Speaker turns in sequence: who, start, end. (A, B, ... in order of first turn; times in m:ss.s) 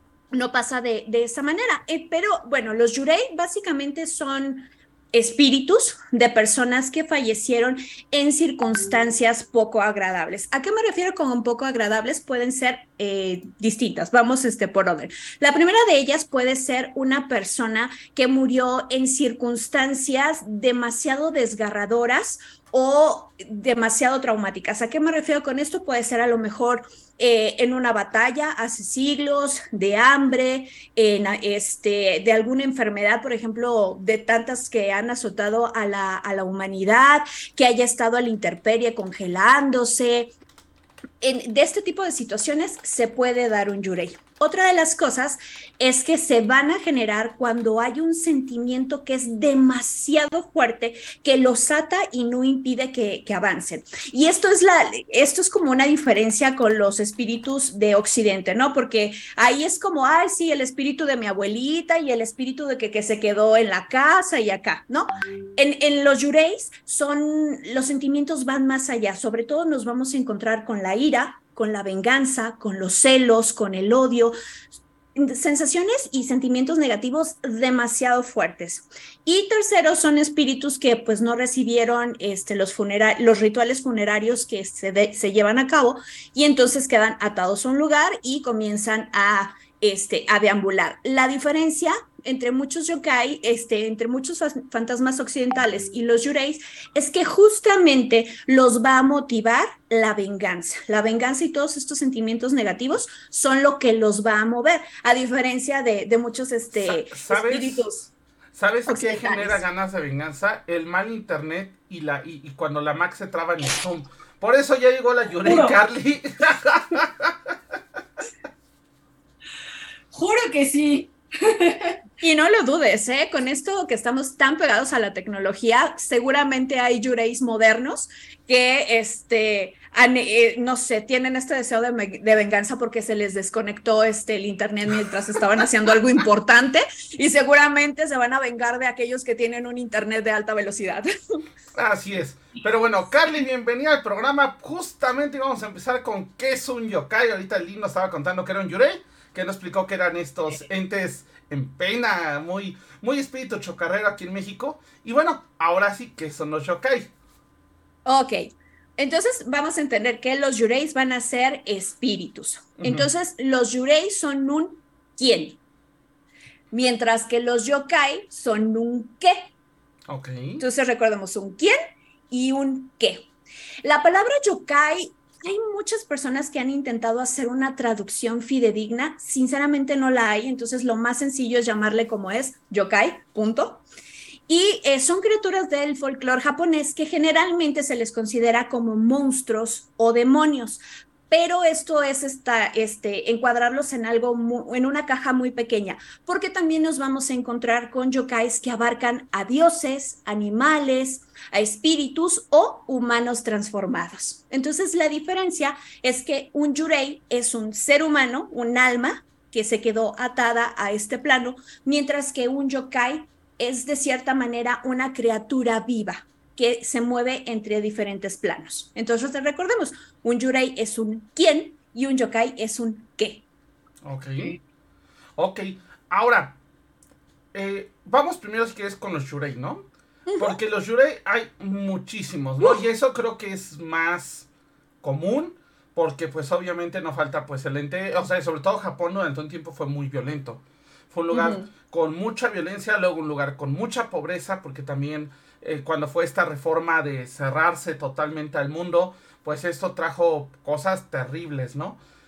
0:00.3-0:40.3 A
0:41.2-1:14.3 A
1:15.1-1:48.1 A
1:46.8-1:47.8 B
1:48.5-1:57.5 B
1:48.9-1:49.6 A
1:55.4-1:55.7 C
2:00.1-2:02.0 C
2:02.2-2:21.1 A
2:21.7-2:37.1 B
2:38.0-2:45.6 A
2:42.8-2:43.1 B
2:46.7-2:49.5 A
2:50.1-2:50.6 B
2:50.6-2:51.7 A
2:52.3-2:53.3 A
2:53.8-3:03.8 A
3:04.5-3:43.4 A
3:44.0-3:44.6 B
3:45.4-3:46.6 B
3:47.5-3:54.5 B
3:50.2-3:50.6 A
3:55.0-4:12.0 B
4:01.3-4:01.7 A